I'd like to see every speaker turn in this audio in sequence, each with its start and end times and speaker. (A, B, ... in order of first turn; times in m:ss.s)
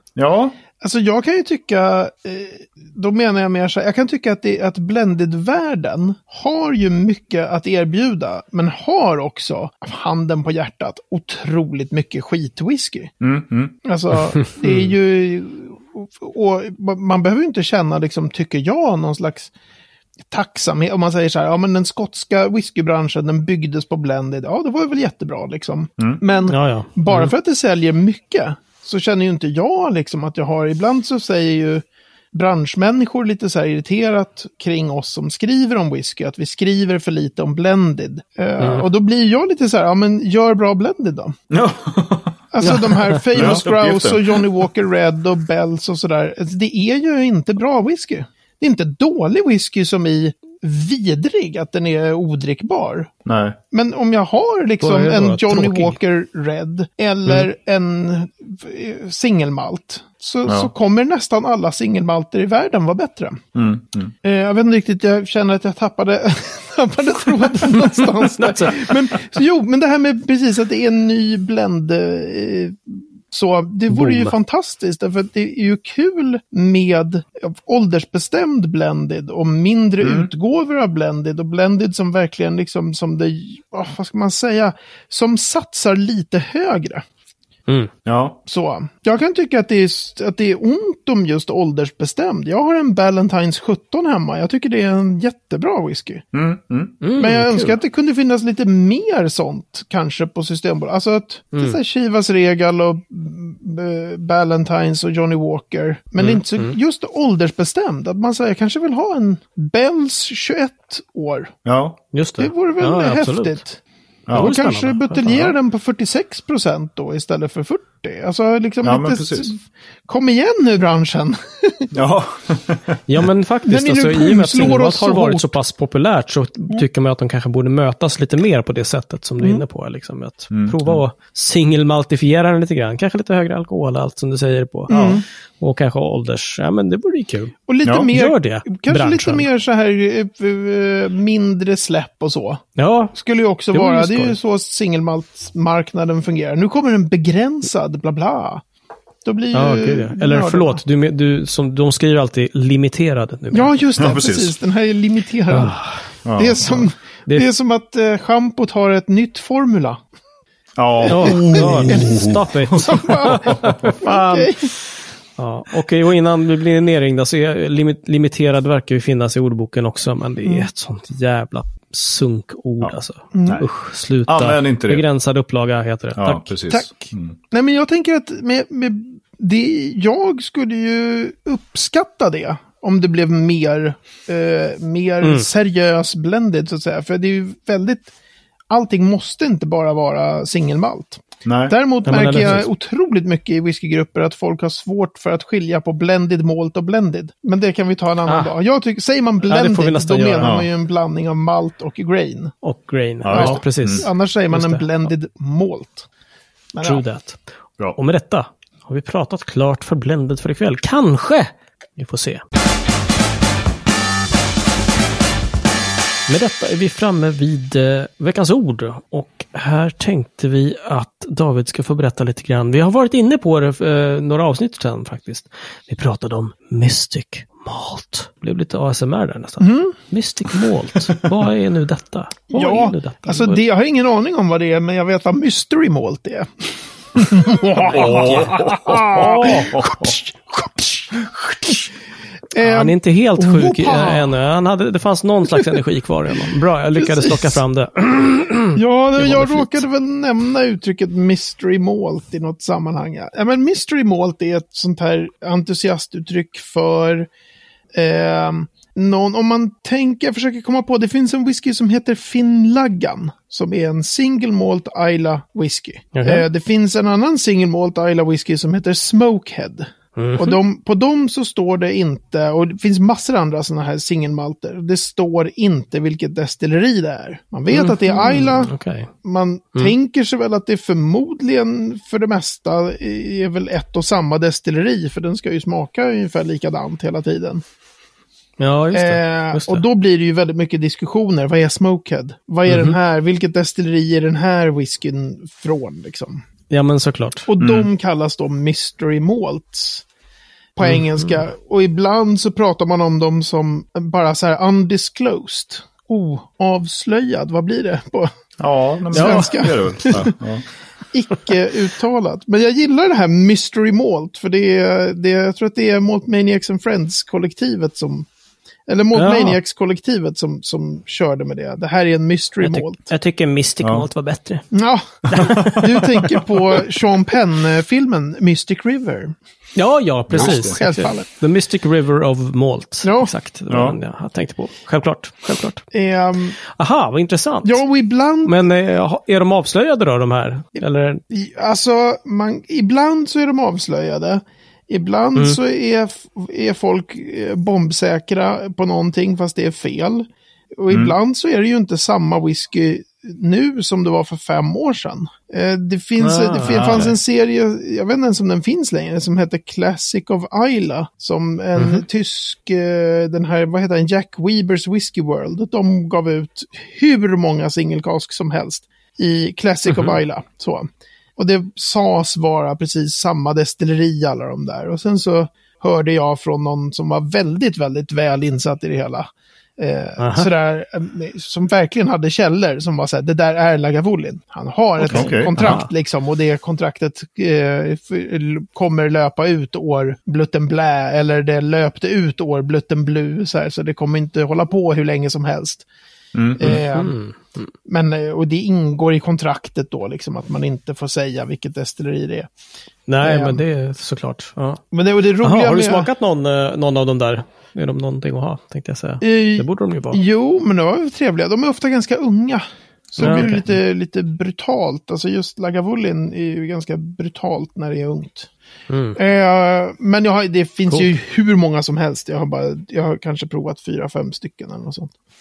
0:00.2-0:00.6 A
0:00.8-0:13.1 B
0:13.2-0:13.8 A
0:13.8-0:19.5 B
0:14.6-0:14.9 C
0:20.3-0:41.4 B
0:26.5-0:27.3 C
0:38.6-0:38.9 C
0:41.5-0:42.4 A
0:42.5-0:53.1 B
0:42.6-0:43.6 C
0:43.3-0:44.5 A
0:53.3-0:53.6 A
0:53.7-1:03.4 B
0:54.8-0:56.0 C
1:03.6-1:04.1 A
1:04.2-1:27.0 B
1:08.4-1:08.9 C
1:13.9-1:14.3 C
1:20.0-1:20.3 A
1:28.0-1:28.4 A
1:28.5-1:36.2 B
1:36.3-1:37.0 A
1:37.0-1:37.8 C
1:37.2-1:51.5 B
1:46.2-1:46.8 C
1:51.6-1:52.0 A
1:52.1-1:53.6 C
1:52.4-1:53.8 B
1:54.3-1:54.5 A
1:54.3-1:55.5 C
1:54.3-2:01.9 B
1:58.8-1:59.5 A
2:01.9-2:03.0 A
2:03.1-2:17.6 C
2:03.7-2:05.5 B
2:10.5-2:11.0 A
2:14.9-2:15.2 B
2:17.7-2:22.6 B
2:17.8-2:18.1 A
2:18.1-2:19.4 C
2:22.8-2:23.1 C
2:23.1-2:28.6 B
2:23.7-2:24.4 C
2:29.2-2:30.8 B
2:29.5-2:33.7 C
2:33.5-2:35.8 B
2:34.0-2:34.6 A
2:35.5-2:36.1 C
2:36.2-2:36.6 A
2:36.4-2:40.0 B
2:36.6-2:37.5 C
2:40.8-2:42.8 A
2:41.1-2:44.5 C
2:41.1-2:44.7 B
2:43.4-2:43.6 A
2:45.4-2:56.5 C
2:53.4-2:53.6 B
2:54.3-2:55.0 A
2:56.2-2:57.4 A
2:56.7-2:57.0 B
2:57.5-3:08.1 B
3:05.2-3:05.5 C
3:08.7-3:22.6 B
3:11.4-3:11.8 A
3:12.0-3:12.6 C
3:12.3-3:12.6 A
3:18.3-3:18.5 C
3:19.4-3:20.6 C
3:20.4-3:20.7 A
3:22.6-3:25.1 C
3:23.2-3:24.0 A
3:23.3-3:26.1 B
3:26.7-3:27.0 B
3:26.8-3:27.4 C
3:28.0-3:32.4 C
3:36.3-3:53.6 C
3:49.6-3:50.0 B
3:52.5-4:01.9 B
3:57.9-4:00.1 A
3:57.9-3:59.8 C
4:02.5-4:04.3 B
4:02.6-4:09.8 C
4:07.0-4:07.6 B
4:08.8-4:17.3 B
4:17.9-4:47.6 B
4:26.1-4:26.5 C
4:30.2-4:30.6 C
4:37.7-4:39.1 C
4:48.6-4:49.8 C
4:48.9-4:56.4 B
4:52.7-4:53.0 C
4:56.7-4:57.5 C
4:57.5-5:00.0 B
4:57.6-4:57.9 A
5:00.8-5:08.3 B
5:00.8-5:01.4 C
5:08.6-5:10.6 A
5:09.1-5:10.4 B
5:09.1-5:09.7 C
5:11.1-5:18.3 B
5:18.9-5:23.0 B
5:19.1-5:19.6 C
5:22.6-5:24.7 C
5:24.7-5:29.3 B
5:25.3-5:26.0 C
5:25.6-5:26.0 A
5:29.8-5:35.8 C
5:30.3-5:30.7 A
5:30.4-5:31.3 B
5:33.0-5:33.3 B
5:33.7-5:34.0 A
5:35.9-5:36.6 B
5:36.6-5:37.8 C
5:37.6-5:38.5 B
5:38.4-5:41.2 C
5:41.3-6:35.8 B
5:50.9-5:51.2 A
5:56.2-5:57.1 C
5:56.7-5:57.1 A
6:01.8-6:02.0 C
6:09.9-6:10.2 C
6:20.2-6:20.5 C
6:25.1-6:25.9 C
6:25.1-6:25.8 A
6:36.3-6:36.8 A
6:36.6-6:37.2 B
6:36.6-6:37.7 C
6:37.8-6:42.5 B
6:43.1-6:44.8 C
6:43.2-6:43.6 B
6:44.9-6:46.1 B
6:45.4-6:50.2 C
6:49.2-6:58.5 B
6:53.2-6:53.7 C
6:58.9-6:59.2 C
6:59.2-7:05.1 B